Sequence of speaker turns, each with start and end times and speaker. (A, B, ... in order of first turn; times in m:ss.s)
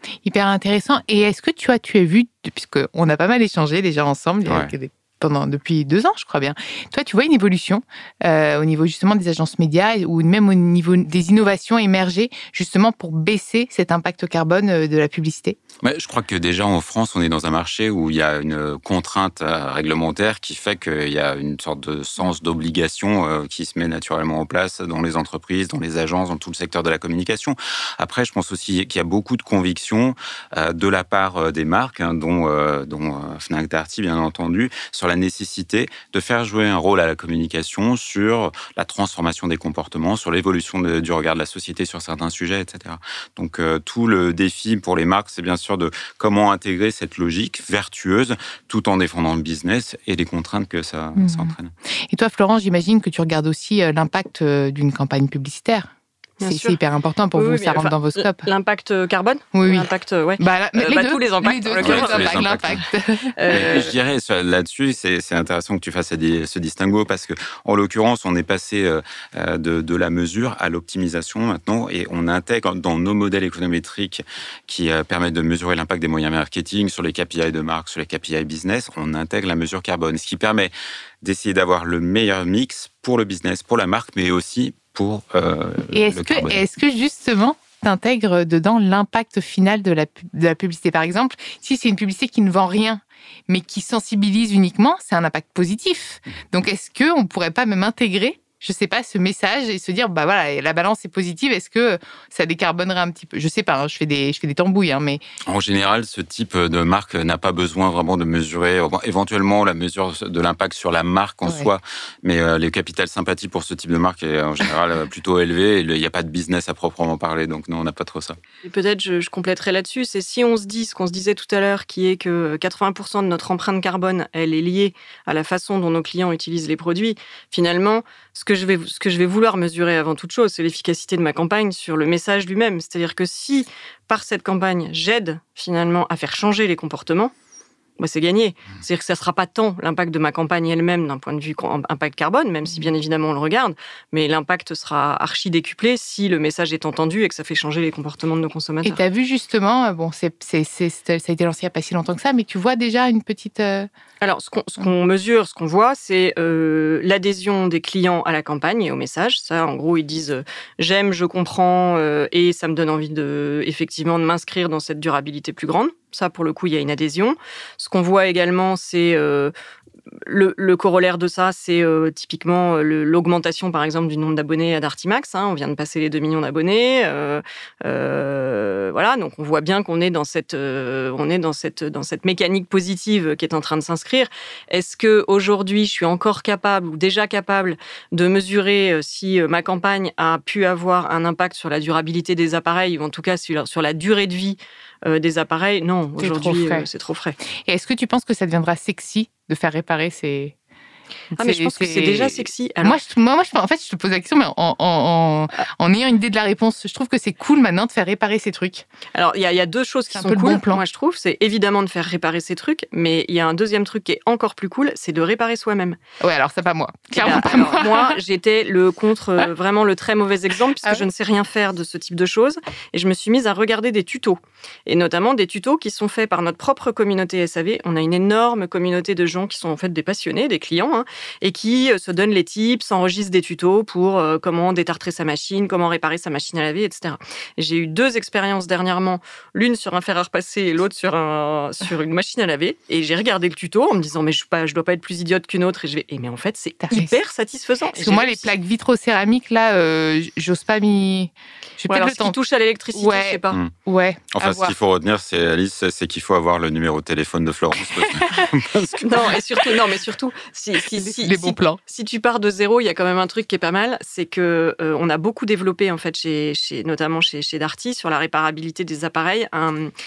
0:00.2-0:15.6 A
0:04.4-0:04.7 B
0:15.8-0:51.7 B
0:51.2-0:51.5 A
0:52.1-0:55.9 A
0:56.4-0:56.8 C
0:56.4-0:58.5 A
0:57.3-1:02.7 C
0:59.5-0:59.9 A
1:00.4-1:03.7 A
1:01.8-1:02.8 B
1:03.4-1:03.9 C
1:03.5-1:26.6 B
1:25.9-1:45.2 A
1:45.4-1:58.4 B
1:51.4-1:51.7 A
1:58.6-2:17.3 C
2:18.0-2:29.0 C
2:28.8-2:33.9 A
2:34.2-2:49.5 C
2:50.2-3:17.4 C
3:16.2-3:16.9 A
3:17.6-3:20.6 A
3:21.4-3:23.0 C
3:21.4-3:28.8 A
3:29.1-3:36.0 C
3:30.1-3:30.8 A
3:36.2-3:38.2 A
3:37.2-4:08.5 C
4:06.8-4:07.1 A
4:07.9-4:12.4 A
4:11.9-4:13.6 C
4:12.9-4:14.7 A
4:14.3-4:19.1 B
4:17.9-4:18.5 A
4:19.0-4:29.9 C
4:21.0-4:21.8 A